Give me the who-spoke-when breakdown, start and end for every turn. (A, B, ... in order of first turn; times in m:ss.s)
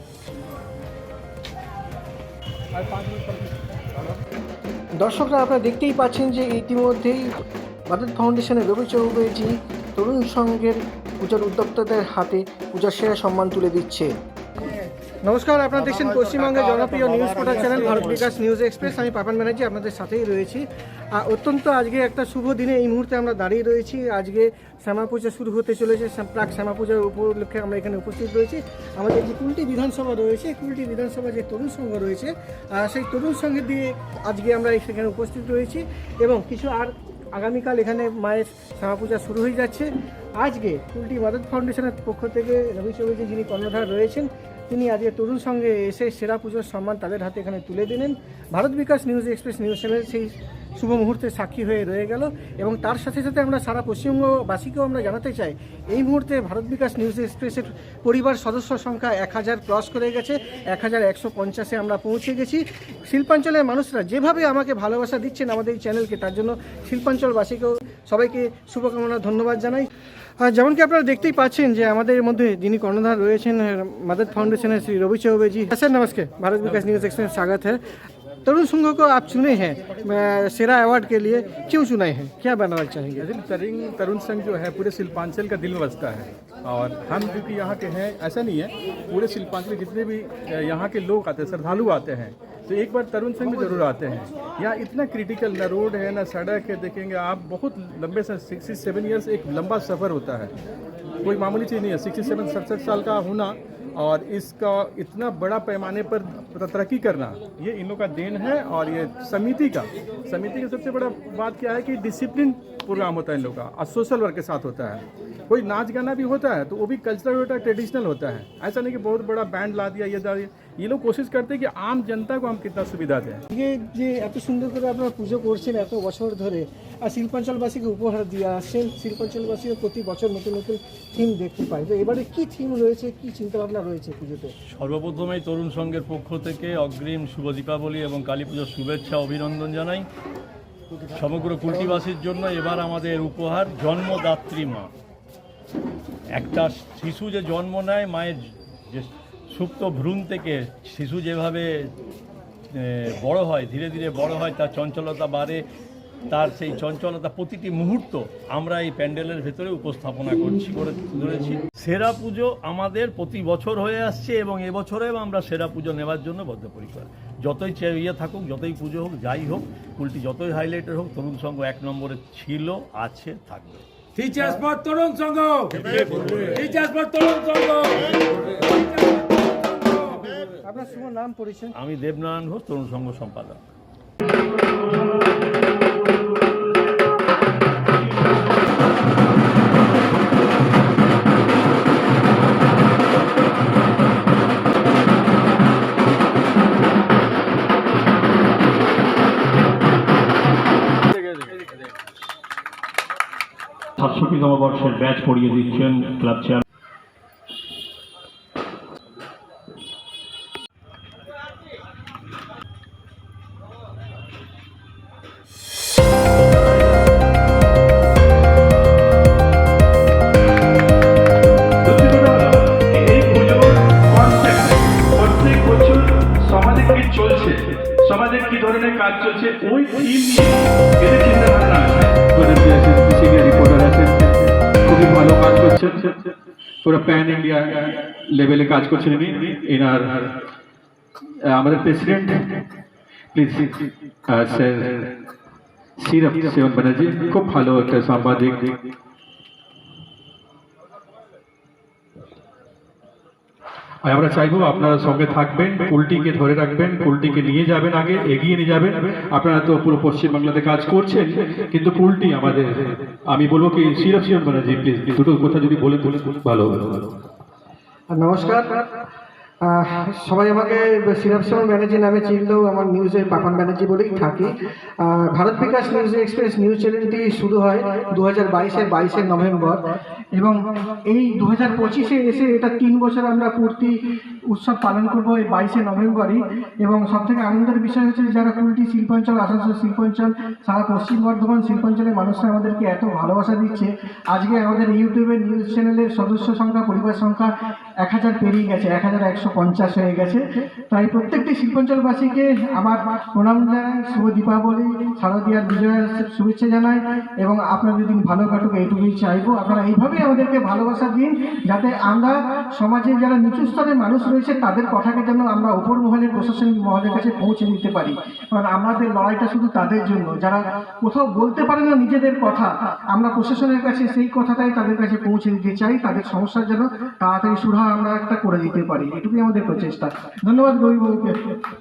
0:02.7-0:03.6 A
0:05.0-0:07.3 B
0:07.9-0:14.1 B
0:15.2-1:17.8 B
1:18.4-1:23.3 B
1:23.2-1:40.5 A
1:41.2-2:03.4 A
2:03.5-2:14.5 B
2:14.7-2:20.1 C
2:21.1-2:24.9 C
2:26.3-2:31.9 C
2:32.7-2:35.7 C
2:36.3-2:54.6 C
2:54.6-2:55.6 D
2:55.6-2:56.9 C
2:56.8-2:57.8 D
3:00.4-3:01.7 B
3:01.8-3:03.6 C
3:24.0-3:26.6 C
3:41.8-3:52.3 A
3:52.3-3:54.2 E
3:54.8-3:56.0 E
3:56.8-4:00.3 E
4:01.5-4:02.4 E
4:03.3-4:05.1 E
4:06.0-4:08.7 E
4:14.0-4:27.1 E
4:28.2-4:28.8 B
4:29.7-5:31.6 B